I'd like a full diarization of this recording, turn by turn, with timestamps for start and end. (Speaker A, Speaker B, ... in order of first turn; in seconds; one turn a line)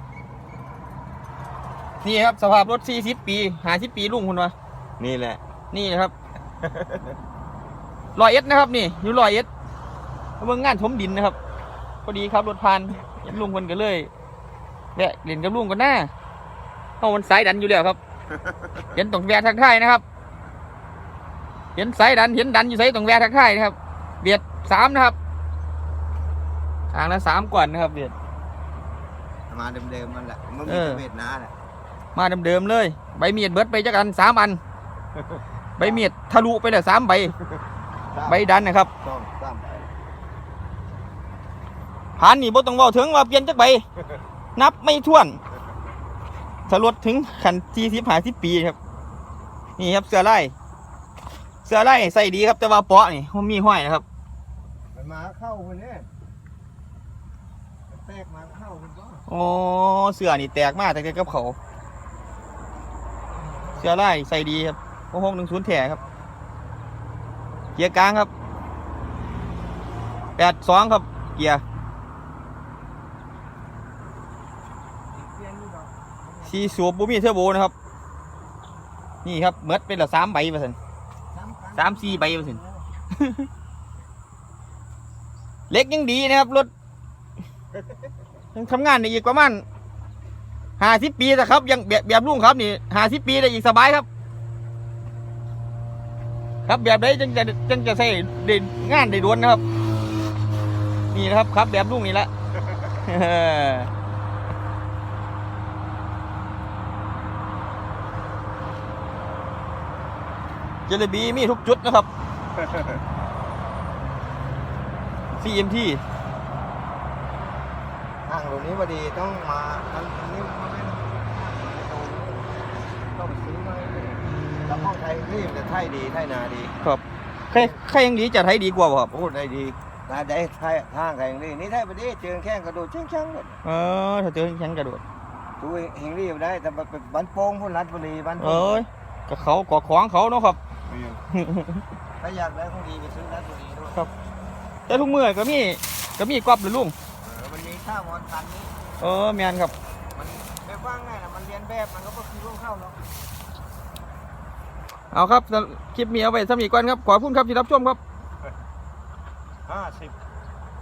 Speaker A: 2.0-4.5
Speaker B: 5.0-5.4
Speaker A: 5.7-6.1
Speaker B: 6.6-7.0
Speaker A: 8.2-9.5
Speaker A: 10.4-11.4
Speaker A: 12.0-14.1
Speaker A: 14.9-16.1
Speaker A: 17.0-18.0
Speaker A: 18.9-20.0
Speaker A: 21.7-25.1
Speaker A: 26.9-28.1
Speaker B: 29.5-31.5
Speaker A: 30.6-31.0
Speaker A: 32.1-34.6
Speaker A: 35.8-37.3
Speaker B: 35.8-36.0
Speaker B: 38.1-39.9
Speaker A: 38.2-38.9
Speaker A: 42.2-43.8
Speaker A: 44.5-45.4
Speaker A: 46.7-48.8
Speaker A: 49.8-50.5
Speaker A: 51.6-54.0
Speaker B: 54.9-56.1
Speaker B: 57.9-59.2
Speaker A: 59.3-61.6
Speaker A: 63.7-66.0
Speaker A: 67.8-68.3
Speaker A: 70.4-71.6
Speaker B: 75.1-76.8
Speaker A: 76.5-77.7
Speaker A: 79.2-80.8
Speaker B: 81.3-82.8
Speaker A: 81.7-82.6
Speaker A: 83.1-83.5
Speaker A: 85.7-86.7
Speaker A: 88.5-89.6
Speaker A: 90.8-94.0
Speaker A: 96.7-99.6
Speaker A: 101.1-102.3
Speaker A: 102.9-103.9
Speaker A: 110.9-112.1
Speaker A: 115.4-116.0
Speaker B: 118.2-122.5
Speaker B: 123.1-126.7
Speaker A: 124.3-124.9
Speaker A: 126.8-129.1
Speaker B: 129.1-133.6
Speaker A: 133.6-135.0
Speaker B: 135.6-138.8
Speaker A: 138.4-140.6
Speaker B: 140.9-141.2
Speaker A: 141.3-141.8
Speaker B: 142.2-144.0
Speaker A: 144.9-146.9
Speaker B: 147.2-148.8
Speaker A: 149.0-149.7
Speaker B: 150.1-153.0
Speaker A: 155.1-158.0
Speaker B: 159.7-160.2